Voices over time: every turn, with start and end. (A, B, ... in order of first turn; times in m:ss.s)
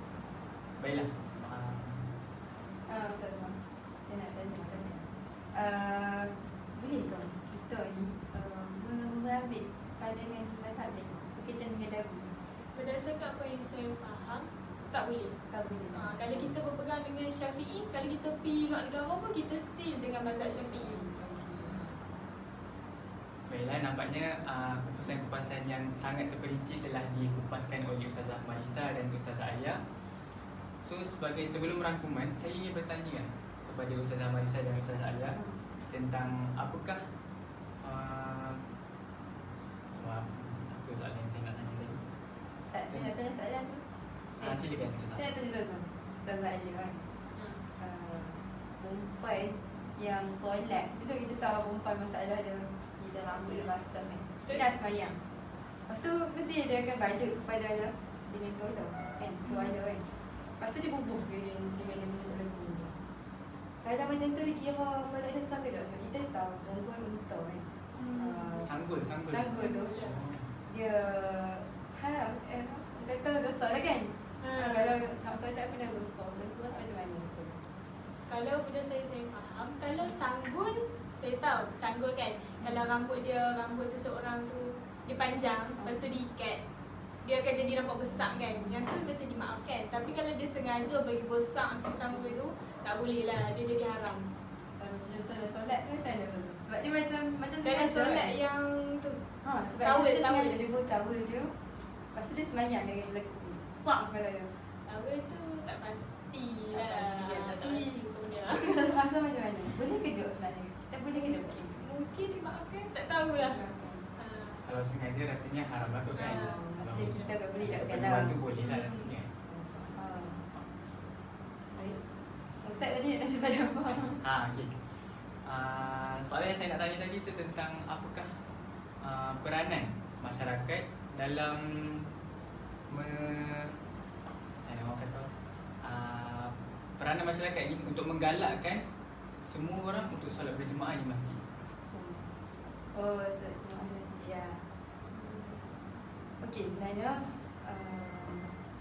0:00.8-0:02.1 A
0:02.9-0:12.3 B
0:12.7-0:15.4 C
0:15.5-0:16.6 B
0:15.9-0:21.0 C
0:20.6-0:22.2 B
0:23.5-0:29.8 A
0:30.8-0:37.1 A
0:35.3-0:35.6 B
0:37.8-0:38.6 A
0:39.9-0:42.0 A
0:42.7-0:43.8 B
0:44.4-0:47.0 B
0:44.4-0:45.2 A
0:47.3-0:47.6 C
0:47.8-0:55.2 B
0:55.9-1:03.0 B
0:59.4-0:59.7 C
1:03.8-1:08.7 B
1:08.0-1:08.6 C
1:08.7-1:10.4 A
1:09.3-1:10.0 B
1:09.5-1:10.2 C
1:10.6-1:17.6 B
1:14.4-1:15.0 C
1:18.3-1:26.6 C
1:27.2-1:34.3 C
1:34.8-1:38.3 B
1:37.6-1:39.2 C
1:39.4-1:41.5 B
1:39.8-1:40.6 C
1:42.1-1:44.5 B
1:44.9-1:49.0 C
1:46.7-1:51.8 B
1:51.1-1:53.6 C
1:53.4-1:54.0 B
1:54.2-1:54.6 C
1:54.6-1:59.3 A
1:56.2-1:56.6 C
1:56.2-1:58.4 B
1:58.6-1:59.1 C
1:59.4-2:00.5 B
2:01.7-2:02.0 B
2:02.6-2:04.2 B
2:04.1-2:04.8 A
2:05.4-2:08.4 A
2:09.0-2:12.1 A
2:12.9-2:13.8 A
2:14.6-2:18.8 A
2:19.4-2:21.4 A
2:21.9-2:22.3 B
2:22.9-2:24.7 B
2:25.1-2:25.6 C
2:26.4-2:28.6 B